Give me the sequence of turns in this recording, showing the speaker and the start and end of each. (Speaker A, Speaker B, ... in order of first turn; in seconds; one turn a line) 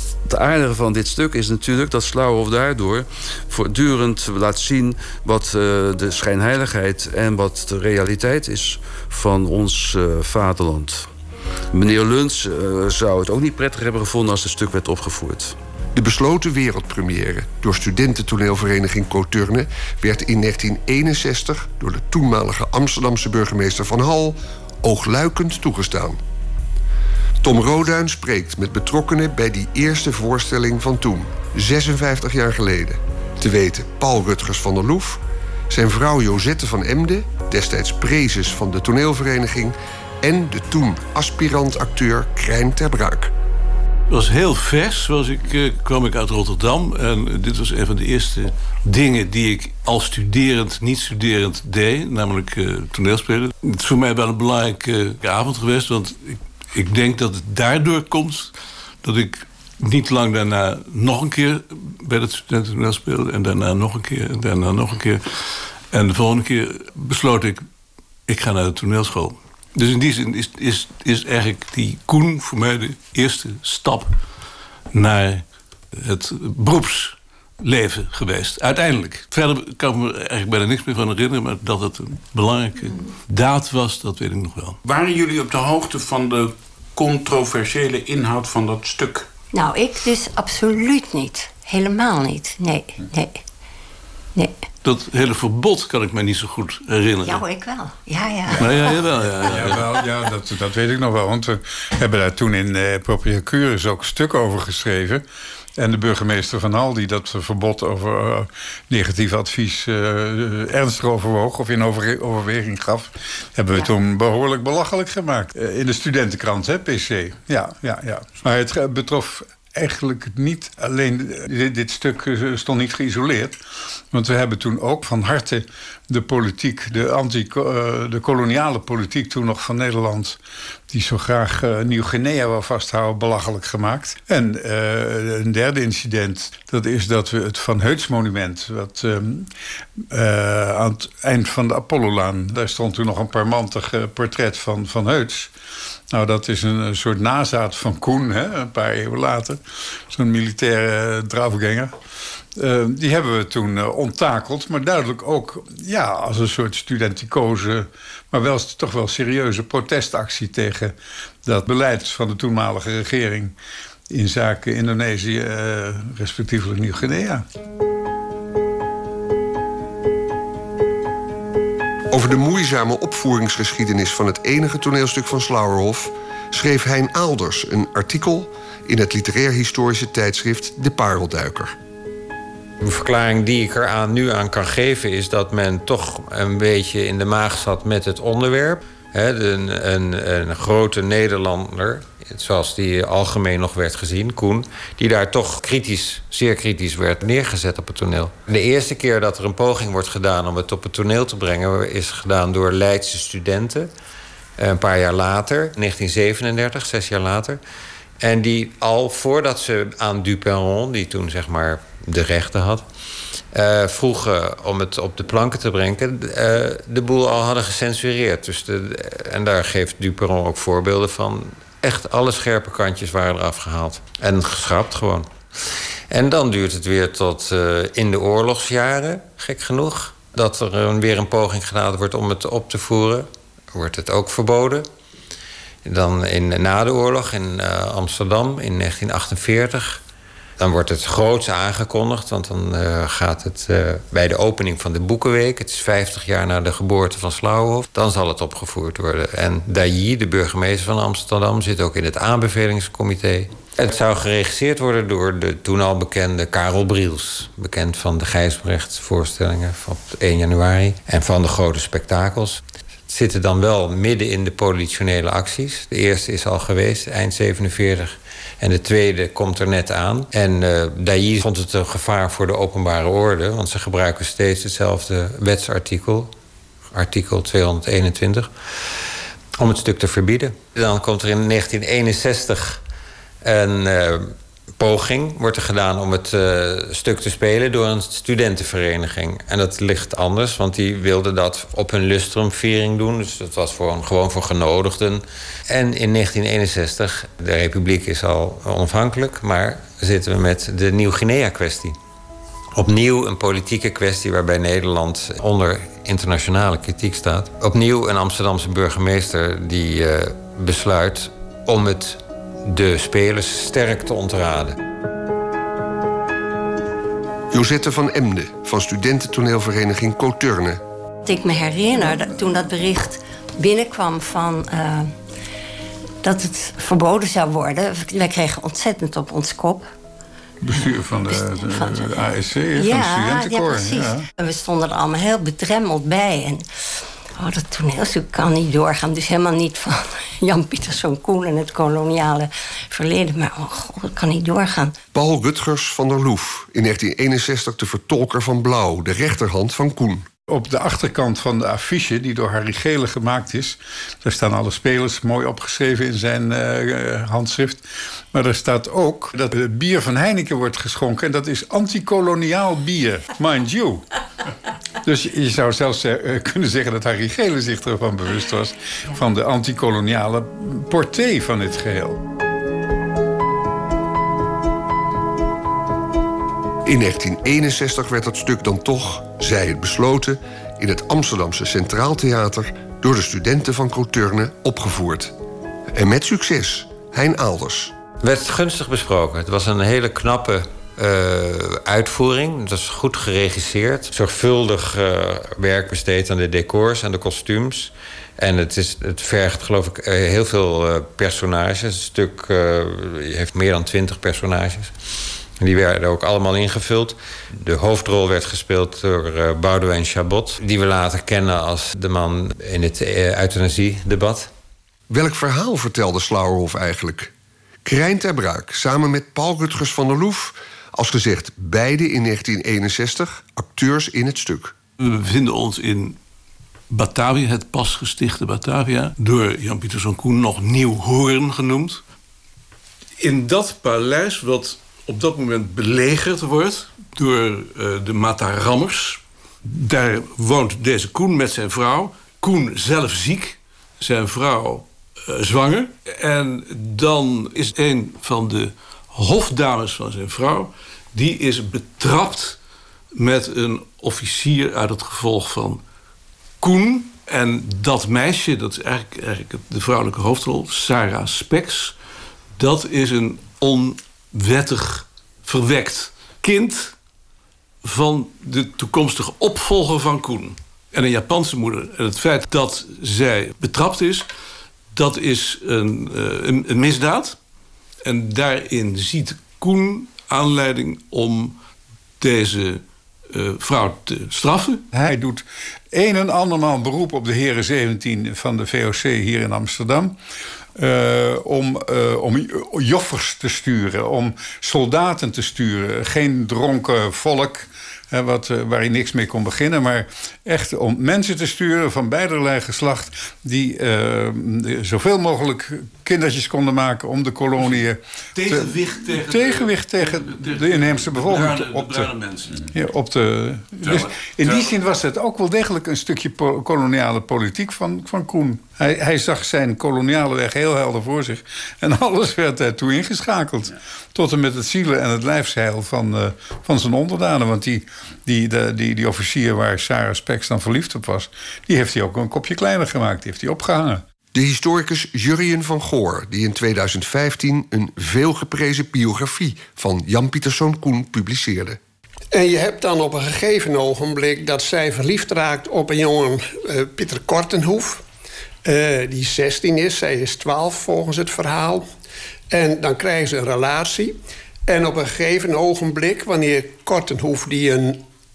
Speaker A: 0.3-11.1
Speaker A: 11.7-15.6
Speaker B: 15.9-26.2
Speaker B: 27.4-43.3
Speaker C: 44.1-65.2
Speaker C: 65.9-67.7
Speaker C: 68.3-74.2
Speaker C: 74.9-84.8
Speaker D: 84.8-89.3
Speaker E: 89.5-93.4
Speaker C: 94.8-97.4
Speaker E: 97.2-99.0
Speaker C: 98.6-99.9
Speaker F: 99.4-105.2
Speaker F: 105.8-123.6
Speaker F: 124.1-130.4
Speaker F: 130.9-139.5
Speaker F: 140.1-145.5
Speaker F: 146.1-151.9
Speaker F: 152.6-163.5
Speaker F: 164.1-167.4
Speaker B: 172.1-181.7
Speaker G: 182.8-203.9
Speaker G: 204.6-207.6
Speaker G: 208.2-212.8
Speaker G: 213.5-225.3
Speaker G: 226.1-234.8
Speaker G: 235.8-240.0
Speaker G: 240.6-276.3
Speaker G: 276.9-278.5
Speaker G: 279.6-282.8
Speaker G: 283.4-301.9
Speaker G: 302.7-314.8
Speaker B: 317.5-320.8
Speaker E: 321.2-325.1
Speaker E: 326.2-329.9
Speaker F: 330.6-334.3
Speaker E: 330.8-332.1
Speaker E: 332.7-336.6
Speaker E: 337.4-344.9
Speaker B: 345.1-350.3
Speaker F: 350.5-364.0
Speaker F: 365.0-372.2
Speaker B: 376.8-385.3
Speaker B: 385.9-387.9
Speaker G: 388.2-404.9
Speaker G: 405.6-414.5
Speaker B: 415.1-417.3
Speaker B: 417.8-424.7
Speaker C: 425.0-426.2
Speaker C: 426.9-432.0
Speaker C: 433.2-452.6
Speaker C: 453.1-455.8
Speaker C: 456.6-461.9
Speaker C: 462.6-466.9
Speaker C: 467.8-474.2
Speaker C: 474.9-477.4
Speaker C: 478.0-481.6
Speaker C: 482.2-484.8
Speaker F: 484.9-490.2
Speaker F: 490.8-512.1
Speaker C: 507.6-507.8
Speaker C: 508.3-512.5
Speaker F: 512.7-534.0
Speaker D: 513.8-514.7
Speaker B: 534.3-541.8
Speaker H: 542.3-548.0
Speaker H: 548.6-551.9
Speaker H: 552.5-554.1
Speaker H: 554.7-558.0